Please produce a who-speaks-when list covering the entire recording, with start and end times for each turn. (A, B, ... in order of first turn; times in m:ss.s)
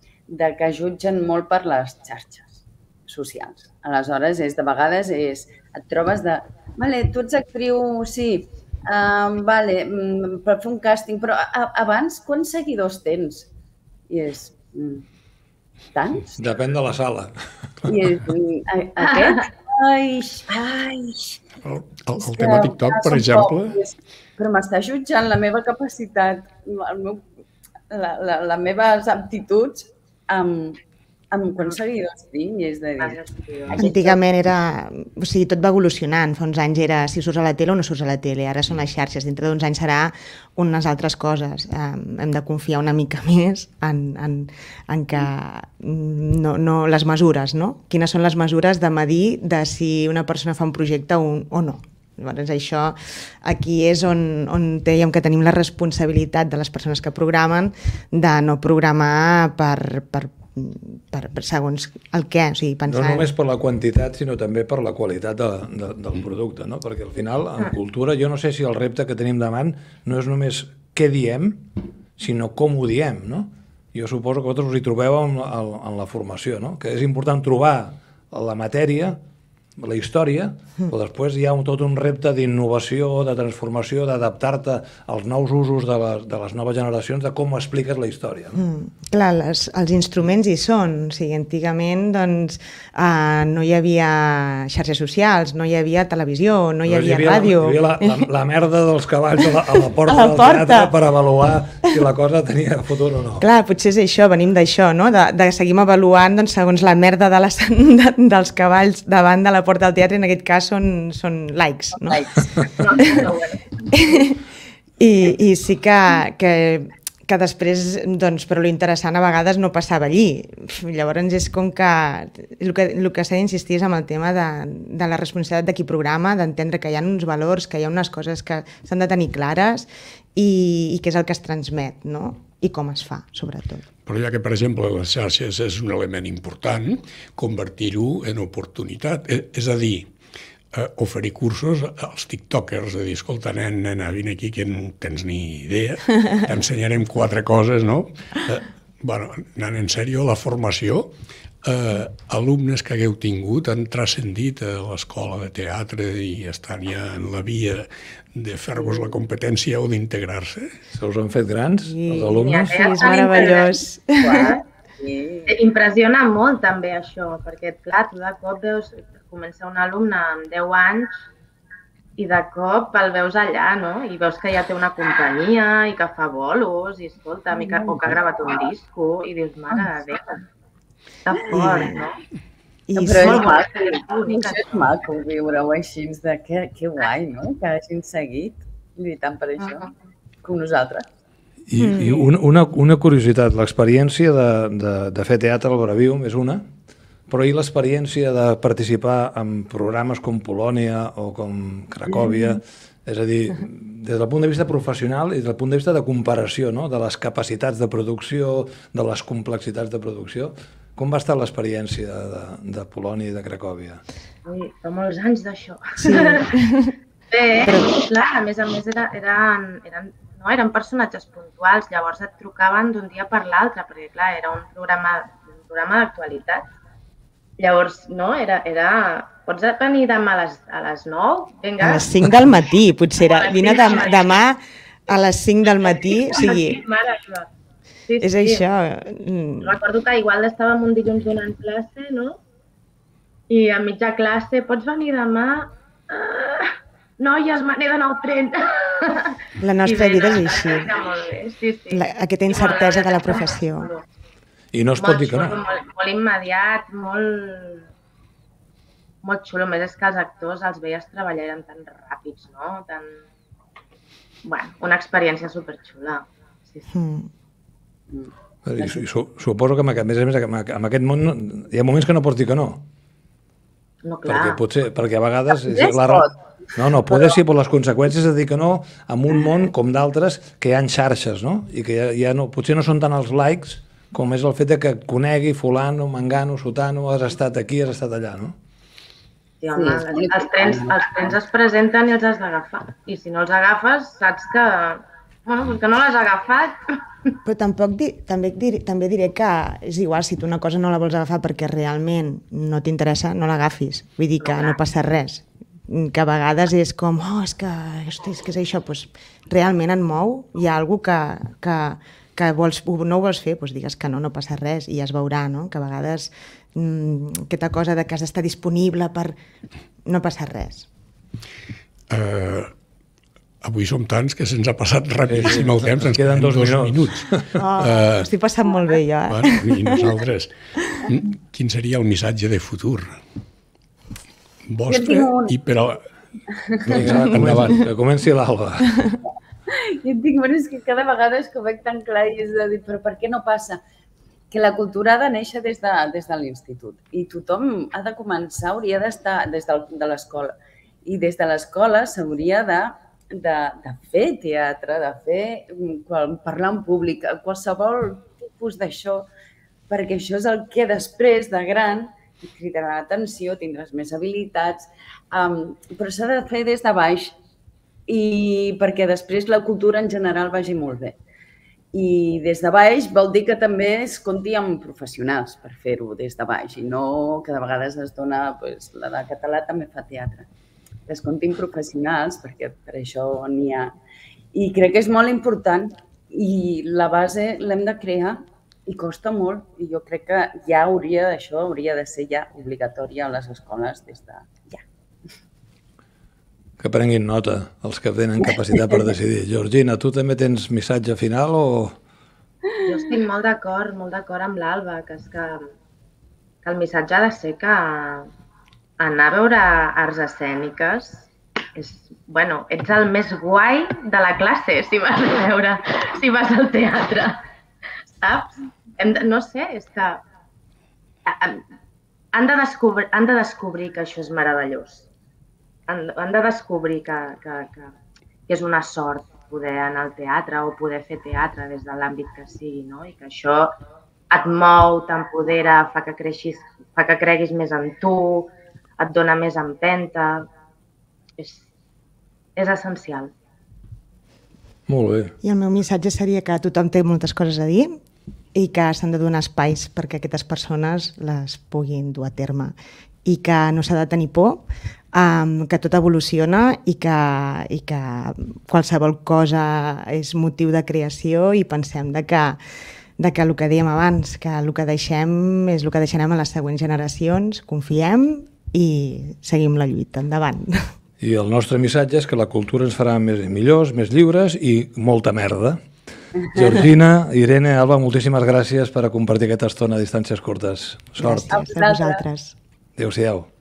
0:00.3-0:13.5 A
0:14.1-0:15.0 A
0:15.9-0:16.4 A
0:16.4-0:18.2 B
0:17.9-0:21.4 A
0:21.5-0:23.8 C
0:22.2-0:27.2 A
0:27.9-0:30.8 A
0:31.3-0:34.1 A
0:33.0-0:34.1 D
0:33.7-1:03.3 E
1:02.9-1:11.6 B
1:12.2-1:19.2 B
1:19.8-1:28.6 B
1:28.6-1:38.3 E
1:36.9-1:43.4 B
1:39.4-1:40.9 E
1:43.4-1:52.3 E
1:52.0-1:53.3 A
1:52.8-1:53.6 D
1:53.0-1:53.3 E
1:53.9-1:54.4 E
1:55.0-2:13.8 E
2:14.0-2:20.1 C
2:20.7-2:31.1 C
2:31.6-2:40.8 C
2:38.8-2:39.2 A
2:40.9-2:43.0 B
2:41.8-2:44.6 E
2:42.1-2:44.6 D
2:44.2-2:45.6 A
2:45.5-2:51.2 D
2:52.2-3:00.4 D
3:01.3-3:02.2 D
3:01.5-3:01.8 A
3:01.5-3:02.0 E
3:02.9-3:03.6 E
3:03.0-3:09.9 A
3:03.1-3:04.6 D
3:10.4-3:11.1 A
3:11.7-3:16.6 B
3:11.8-3:12.2 E
3:17.3-3:34.0 B
3:22.1-3:22.6 A
3:34.4-3:36.6 D
3:36.0-3:36.9 E
3:37.3-3:46.6 D
3:47.6-3:52.2 D
3:51.8-3:56.8 E
3:53.2-3:54.4 D
3:56.1-3:57.5 D
3:58.1-3:58.6 D
3:58.2-3:59.8 E
3:59.6-4:02.4 D
4:03.5-4:14.0 D
4:09.6-4:10.9 E
4:11.9-4:13.9 E
4:14.7-4:15.6 B
4:15.0-4:17.9 D
4:19.2-4:23.2 D
4:24.4-4:26.9 D
4:26.9-4:27.3 E
4:28.1-4:29.0 A
4:28.6-4:32.8 B
4:34.0-4:34.6 D
4:34.2-4:48.6 B
4:35.5-4:36.3 A
4:49.6-4:57.3 D
4:49.7-4:51.3 A
4:57.4-5:19.4 E
5:04.4-5:04.8 D
5:20.0-5:20.9 E
5:22.1-5:22.7 C
5:23.6-5:28.3 C
5:25.3-5:27.5 B
5:27.6-5:30.0 E
5:29.3-5:33.2 C
5:34.7-5:36.0 C
5:34.9-5:35.6 A
5:36.5-5:37.2 A
5:36.8-5:37.9 C
5:36.9-5:39.0 B
5:39.7-5:43.8 A
5:44.5-5:50.5 A
5:51.0-5:59.3 A
5:59.9-6:07.4 A
6:08.1-6:11.2 A
6:11.9-6:20.5 A
6:21.1-6:23.9 A
6:24.5-6:34.8 A
6:36.8-6:42.0 B
6:42.9-6:45.6 D
6:46.6-6:48.3 D
6:49.0-6:57.4 D
6:58.2-7:00.2 D
7:01.3-7:01.6 D
7:02.3-7:05.1 D
7:05.9-7:07.9 D
7:08.5-7:13.7 D
7:14.3-7:20.5 D
7:21.4-7:21.7 D
7:22.6-7:23.3 D
7:24.9-7:25.3 B
7:25.4-7:28.0 E
7:28.5-7:42.6 E
7:43.2-7:50.9 E
7:51.2-7:55.8 B
7:56.4-7:56.8 A
7:56.5-8:01.5 B
8:01.2-8:02.6 E
8:01.5-8:02.2 A
8:03.0-8:03.5 B